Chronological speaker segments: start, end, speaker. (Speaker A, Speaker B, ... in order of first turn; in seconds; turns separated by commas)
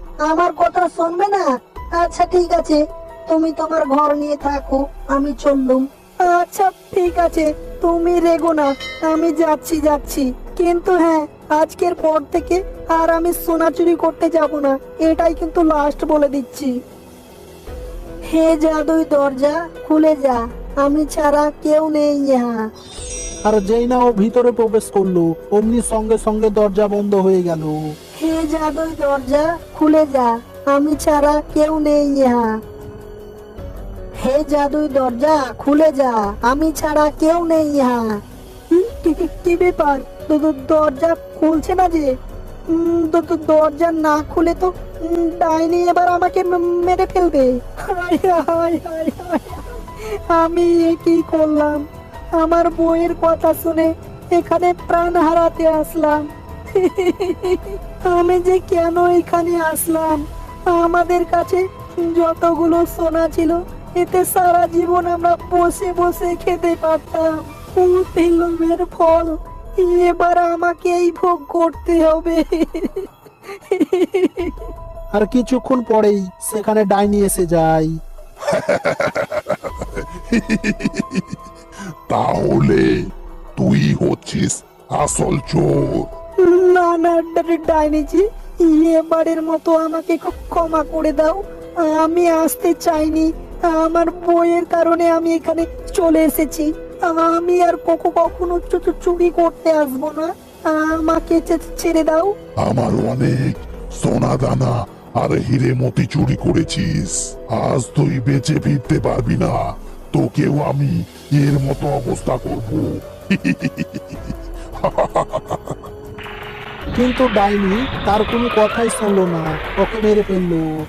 Speaker A: 0.3-16.7, Speaker A: 18.3-22.6, Speaker B: 23.4-27.9, Speaker A: 28.2-32.5, Speaker A: 34.2-42.1, Speaker A: 42.7-74.7, Speaker B: 75.1-77.9, Speaker C: 78.5-81.4, Speaker C: 82.1-82.9, Speaker C: 83.5-86.1, Speaker A: 86.4-102.3, Speaker C: 102.6-109.6, Speaker C: 110.1-115.8, Speaker B: 116.9-120.6